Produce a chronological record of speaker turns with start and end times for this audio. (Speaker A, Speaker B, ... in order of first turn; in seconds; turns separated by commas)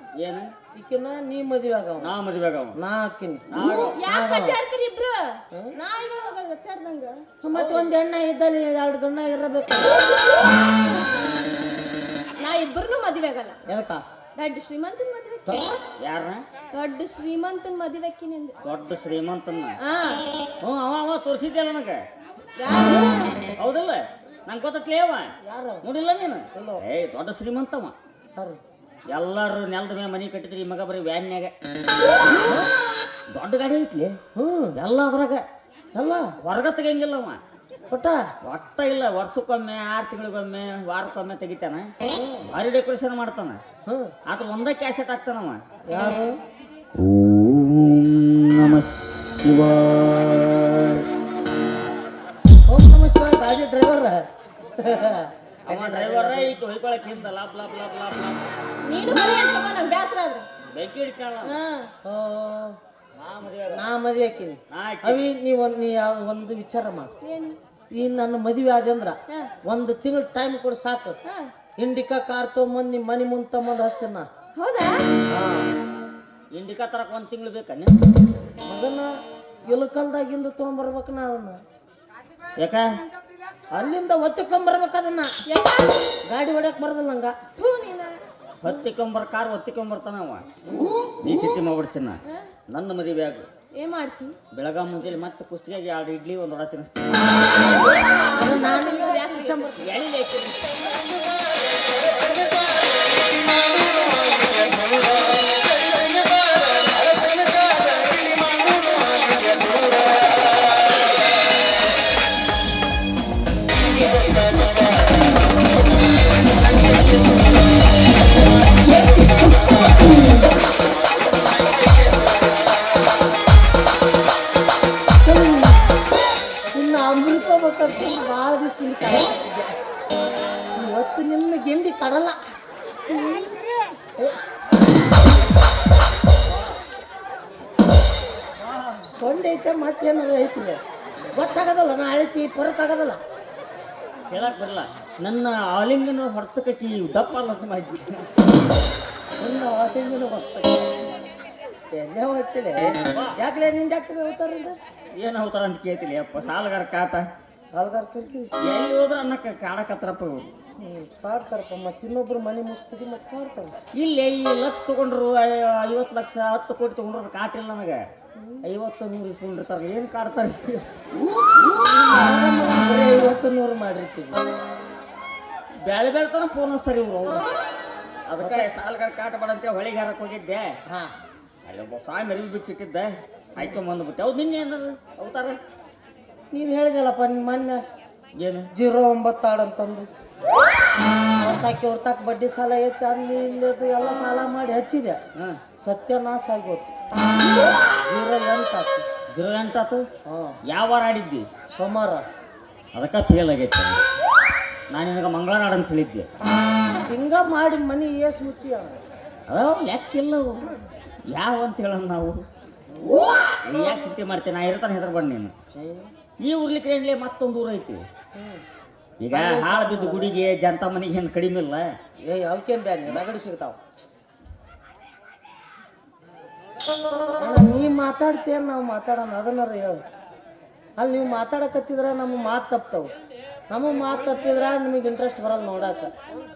Speaker A: 0.2-0.5, Speaker B: 0.7-2.1, Speaker A: 2.0-2.8, Speaker B: 2.8-3.5, Speaker A: 3.5-4.0, Speaker C: 3.9-7.2, Speaker B: 4.0-4.6, Speaker B: 7.4-10.1, Speaker C: 12.4-13.6, Speaker B: 13.7-14.0, Speaker C: 14.4-15.7, Speaker A: 16.0-16.4, Speaker C: 16.7-18.6, Speaker A: 18.6-19.8, Speaker C: 19.8-20.2, Speaker A: 20.6-22.0, Speaker C: 22.6-23.2, Speaker A: 23.6-27.9, Speaker B: 25.4-25.9, Speaker B: 26.5-26.8, Speaker A: 29.1-31.5, Speaker A: 33.3-34.2, Speaker B: 34.4-34.7, Speaker A: 34.7-35.4, Speaker B: 35.9-36.3, Speaker A: 36.4-37.4, Speaker B: 37.9-38.2, Speaker A: 38.4-41.9, Speaker B: 42.1-42.4, Speaker A: 42.5-43.6, Speaker A: 44.3-45.6, Speaker B: 45.9-46.4, Speaker A: 47.0-51.0, Speaker B: 52.7-54.2, Speaker B: 54.8-56.5, Speaker A: 55.7-58.4, Speaker C: 58.9-60.5, Speaker A: 60.7-61.5, Speaker C: 61.4-61.9, Speaker B: 62.0-62.8, Speaker A: 63.2-63.8, Speaker B: 63.7-67.1, Speaker A: 64.7-65.2, Speaker C: 67.2-67.6, Speaker B: 68.0-69.2, Speaker B: 69.7-71.2, Speaker C: 71.2-71.5, Speaker B: 71.8-74.2, Speaker C: 74.6-75.1, Speaker B: 75.3-75.7, Speaker A: 76.5-78.0, Speaker B: 78.7-79.1, Speaker B: 79.7-81.6, Speaker A: 82.6-82.8, Speaker B: 83.7-85.3, Speaker C: 85.5-86.1, Speaker B: 86.3-87.3, Speaker C: 87.6-88.2, Speaker A: 88.6-90.5, Speaker A: 91.2-93.5, Speaker C: 93.8-94.3, Speaker A: 94.5-97.8, Speaker C: 97.6-99.8, Speaker B: 98.3-100.0, Speaker A: 99.8-100.9, Speaker B: 125.2-125.8, Speaker B: 126.7-129.7, Speaker B: 130.7-132.4, Speaker B: 139.1-140.8, Speaker B: 141.3-143.2, Speaker A: 144.3-148.2, Speaker B: 149.4-150.9, Speaker B: 151.9-154.8, Speaker A: 153.1-153.4, Speaker A: 155.2-157.2, Speaker B: 157.7-158.5, Speaker A: 158.6-160.5, Speaker B: 160.8-163.7, Speaker A: 164.0-168.0, Speaker A: 168.6-170.9, Speaker B: 171.8-174.4, Speaker A: 175.8-177.5, Speaker A: 178.3-180.8, Speaker B: 178.4-178.7, Speaker A: 181.6-185.6, Speaker B: 186.5-187.8, Speaker A: 188.3-188.7, Speaker B: 188.7-190.1, Speaker B: 191.4-195.2, Speaker B: 195.8-196.9, Speaker B: 197.8-199.0, Speaker A: 199.3-200.0, Speaker B: 200.3-200.5, Speaker A: 200.7-201.4, Speaker B: 201.7-202.2, Speaker A: 202.9-204.0, Speaker A: 204.9-206.3, Speaker B: 207.1-209.0, Speaker A: 209.5-210.7, Speaker A: 211.3-212.4, Speaker B: 212.9-213.3, Speaker A: 213.7-215.5, Speaker B: 215.8-216.1, Speaker A: 216.4-218.0, Speaker B: 218.3-218.6, Speaker A: 219.2-221.9, Speaker B: 219.3-220.4, Speaker B: 222.3-223.8, Speaker B: 227.4-230.0, Speaker B: 231.0-233.1, Speaker B: 233.7-236.1